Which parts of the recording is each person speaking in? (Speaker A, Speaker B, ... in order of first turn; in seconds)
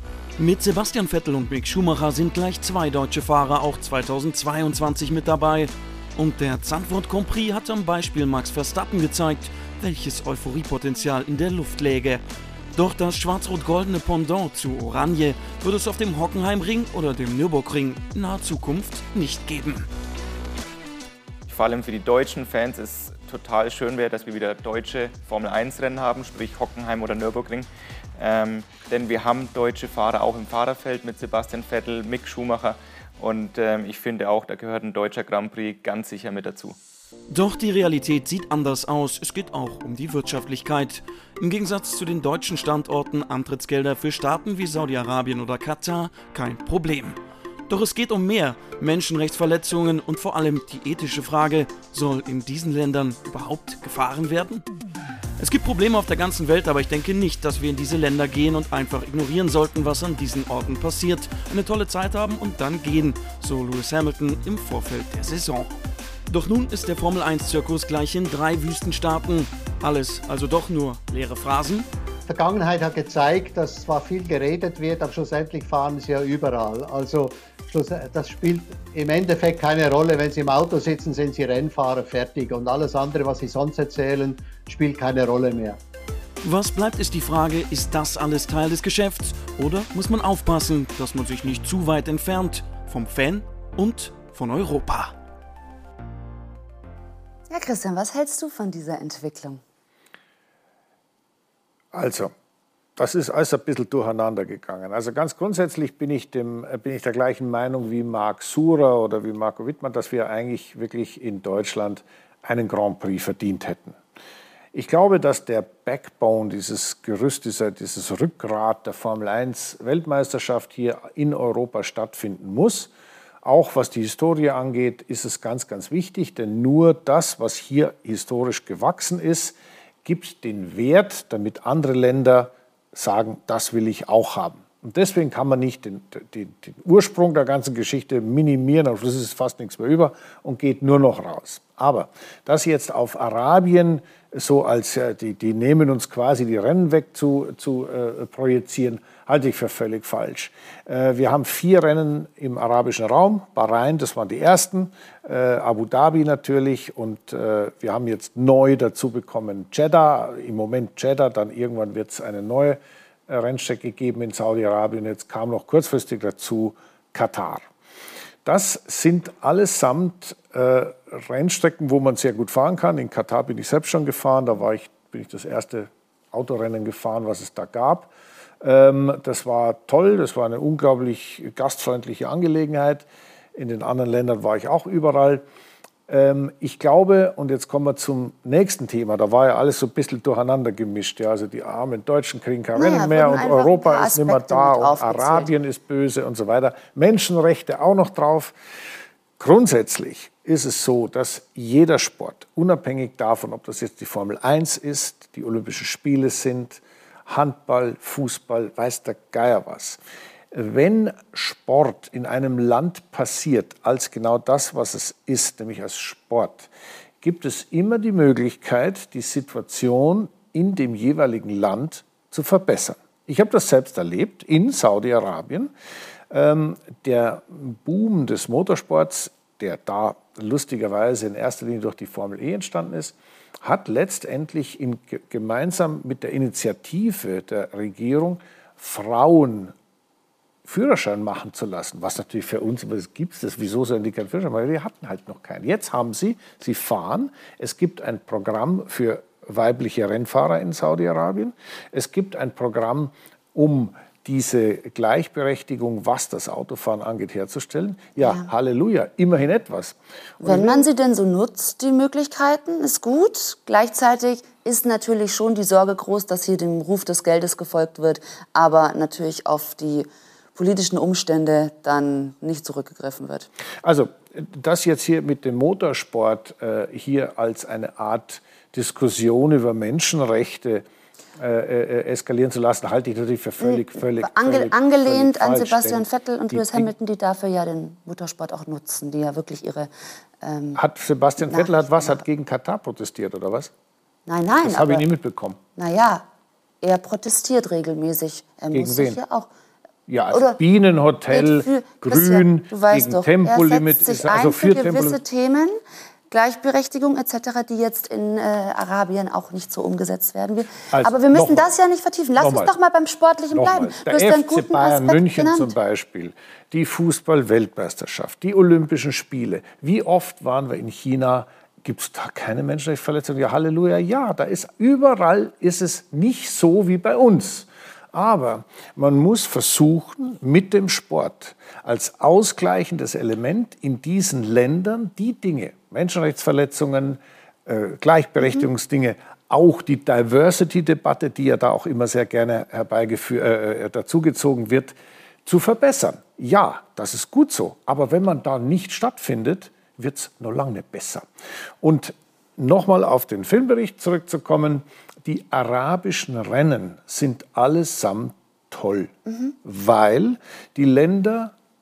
Speaker A: 0.4-12.2, 12.8-19.9, 37.3-54.7, 55.4-65.7, 66.3-71.9, 86.4-95.1
Speaker B: 21.5-36.8
Speaker C: 72.3-85.8
Speaker D: 97.5-99.6, 192.8-195.5, 258.2-258.5, 260.4-273.5, 283.6-289.9, 290.4-290.8, 291.4-292.2, 294.3-295.1, 295.8-296.3, 296.8-299.5, 300.3-300.6, 301.3-305.8, 306.3-315.7
Speaker E: 101.9-102.3, 103.0-114.0, 114.7-122.9, 123.5-162.8, 163.3-167.6, 168.4-178.1, 178.6-185.4, 186.1-198.6, 199.4-210.0, 210.5-216.7, 217.2-225.7, 226.3-239.7, 240.7-260.9, 273.8-280.8, 281.4-286.9, 290.8-293.7, 294.6-295.6, 298.7-299.2, 300.1-305.2, 310.9-311.7, 312.4-312.7, 313.5-344.9, 345.5-351.3, 351.8-359.1, 359.6-361.5